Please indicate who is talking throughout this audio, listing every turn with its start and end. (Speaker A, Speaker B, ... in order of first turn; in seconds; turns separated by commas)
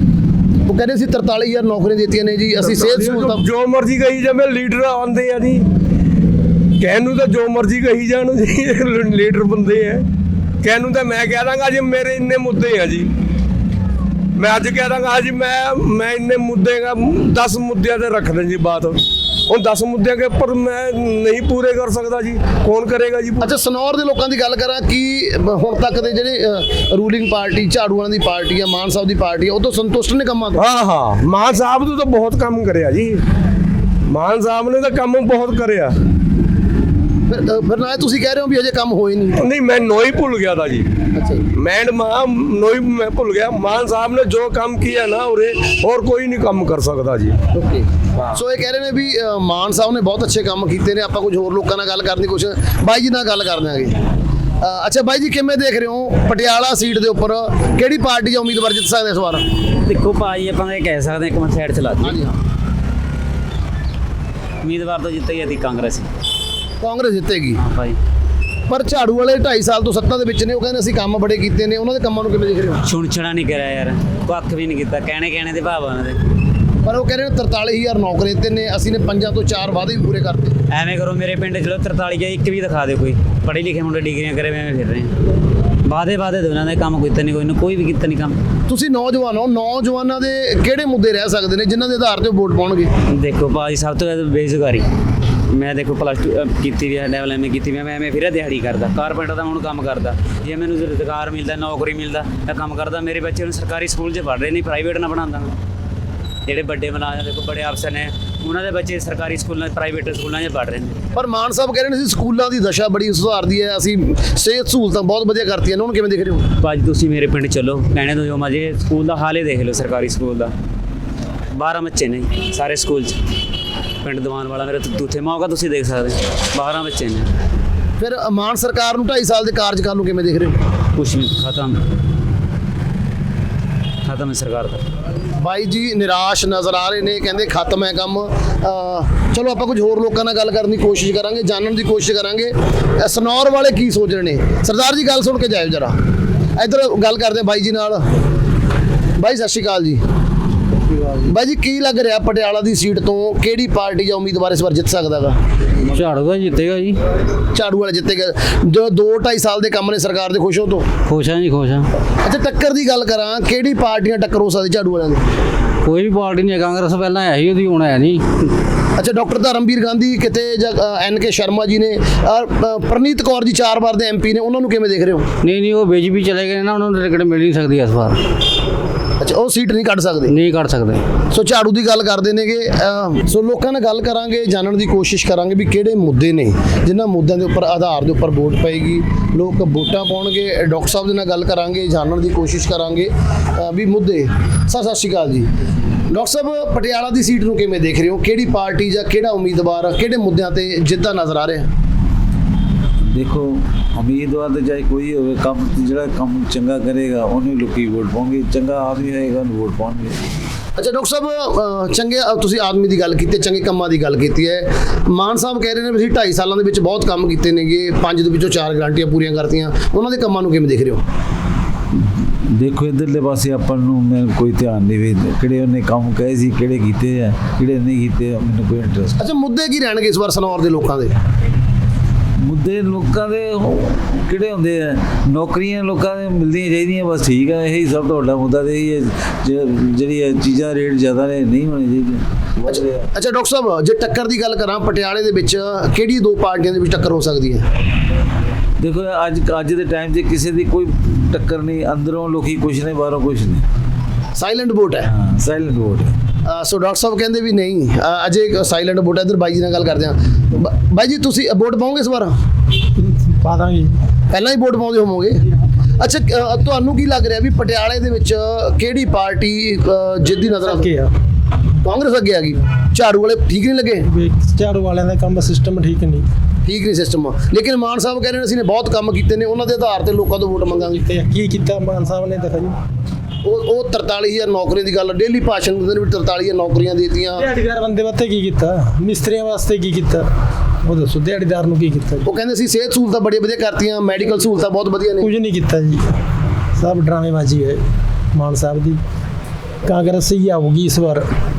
Speaker A: 0.7-3.4, Speaker B: 2.6-5.6, Speaker B: 6.8-10.0, Speaker B: 10.6-13.1, Speaker B: 14.4-23.4, Speaker A: 23.4-30.6, Speaker B: 30.6-33.2, Speaker B: 34.1-35.9, Speaker A: 37.3-39.4, Speaker B: 39.4-40.9, Speaker A: 41.2-41.4, Speaker B: 41.5-47.4, Speaker A: 47.5-54.0, Speaker A: 54.6-59.5, Speaker C: 59.8-62.2, Speaker A: 62.0-62.3, Speaker C: 64.6-66.0, Speaker A: 66.8-67.6, Speaker C: 67.6-68.0, Speaker A: 68.7-72.8, Speaker C: 72.8-76.2, Speaker A: 76.8-80.5, Speaker C: 80.7-85.1, Speaker C: 85.9-88.3, Speaker A: 88.7-92.9, Speaker C: 93.1-94.8, Speaker C: 95.5-105.5, Speaker C: 106.5-111.0, Speaker A: 111.1-116.5, Speaker C: 116.6-120.5, Speaker C: 121.5-123.1, Speaker C: 124.0-127.3, Speaker A: 128.0-130.6, Speaker C: 130.9-131.8, Speaker C: 134.0-134.8, Speaker A: 135.4-145.9, Speaker A: 146.6-148.0, Speaker A: 149.2-150.0, Speaker A: 151.2-155.3, Speaker D: 155.9-157.0, Speaker A: 157.5-160.8, Speaker D: 161.1-161.8, Speaker A: 162.2-165.2, Speaker D: 165.8-168.2, Speaker A: 169.0-175.3, Speaker D: 175.4-178.2, Speaker A: 179.2-180.3, Speaker D: 180.3-181.0, Speaker A: 181.3-195.5, Speaker A: 196.1-201.7, Speaker E: 203.1-210.2, Speaker A: 210.8-221.0, Speaker E: 221.9-229.2, Speaker A: 229.2-231.1, Speaker E: 232.4-243.1, Speaker A: 242.7-247.6, Speaker E: 248.8-253.6, Speaker A: 254.4-255.1, Speaker E: 255.1-256.1, Speaker A: 256.5-262.3, Speaker F: 263.0-263.9, Speaker A: 264.3-265.4, Speaker A: 266.0-270.9, Speaker F: 270.6-271.1, Speaker A: 271.8-274.1, Speaker F: 274.1-276.2, Speaker A: 276.6-281.0, Speaker F: 281.0-282.7, Speaker A: 283.4-287.5, Speaker F: 287.4-290.2, Speaker F: 290.8-292.2, Speaker A: 292.2-295.3, Speaker F: 295.2-296.0, Speaker F: 296.8-297.8, Speaker F: 298.3-299.0, Speaker F: 299.8-301.2